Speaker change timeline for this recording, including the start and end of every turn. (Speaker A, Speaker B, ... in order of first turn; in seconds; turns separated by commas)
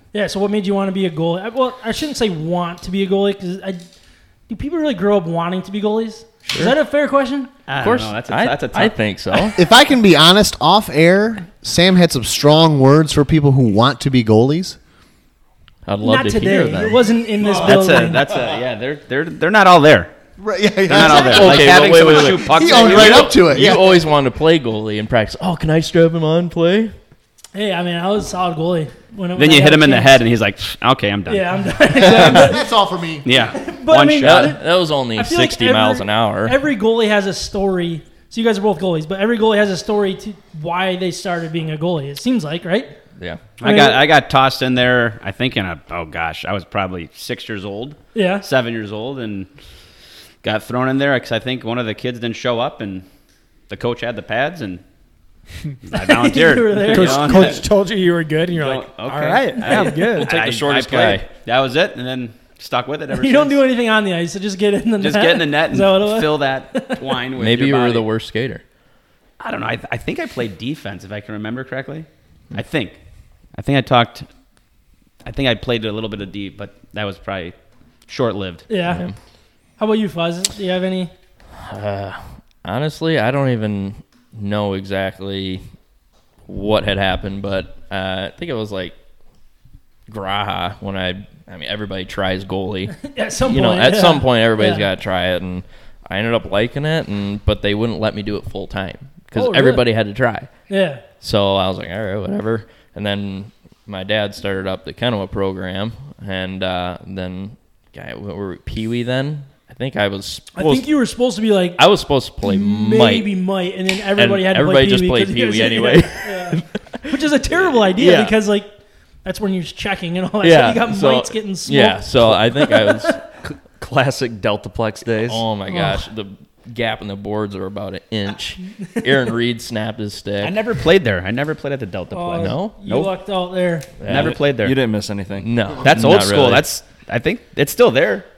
Speaker A: 0.1-3.9, Speaker A: 4.5-7.5, Speaker B: 6.5-6.8, Speaker C: 7.7-8.9, Speaker B: 7.8-9.6, Speaker A: 8.7-9.6, Speaker D: 9.6-14.8, Speaker B: 15.9-17.0, Speaker A: 16.0-18.2, Speaker C: 17.4-20.1, Speaker D: 20.4-24.1, Speaker C: 20.9-23.4, Speaker B: 21.0-26.9, Speaker A: 27.6-30.2, Speaker C: 29.4-32.5, Speaker A: 31.3-32.6, Speaker D: 31.9-33.3, Speaker C: 33.2-34.5, Speaker A: 33.4-42.9, Speaker B: 34.2-36.6, Speaker C: 43.6-49.5, Speaker A: 43.6-44.0, Speaker A: 48.1-48.5, Speaker C: 50.4-53.0, Speaker C: 53.7-54.8, Speaker C: 55.9-57.6, Speaker A: 55.9-57.6, Speaker E: 56.9-60.3, Speaker C: 58.5-63.6, Speaker B: 59.7-61.3, Speaker A: 63.1-67.1, Speaker C: 65.0-68.0, Speaker B: 67.4-68.6, Speaker C: 69.4-73.0, Speaker C: 73.5-74.3, Speaker C: 75.2-77.5, Speaker C: 78.1-78.7, Speaker A: 78.7-79.0, Speaker B: 78.8-79.1, Speaker A: 79.8-81.1, Speaker B: 81.6-85.6, Speaker B: 86.5-88.9, Speaker B: 90.1-100.5, Speaker A: 93.0-94.9, Speaker A: 99.3-99.9, Speaker A: 100.7-101.0, Speaker B: 101.2-110.9, Speaker A: 110.5-111.8, Speaker B: 111.8-113.3, Speaker A: 112.4-118.7, Speaker B: 114.1-118.3, Speaker A: 119.2-123.2, Speaker B: 120.4-123.3, Speaker F: 123.7-125.4, Speaker B: 125.2-130.6, Speaker A: 125.7-126.0, Speaker C: 130.4-133.1, Speaker A: 132.1-133.9, Speaker B: 132.4-132.8, Speaker B: 134.0-134.4, Speaker C: 134.1-134.8, Speaker F: 134.1-135.6, Speaker B: 135.4-136.7, Speaker C: 135.8-138.2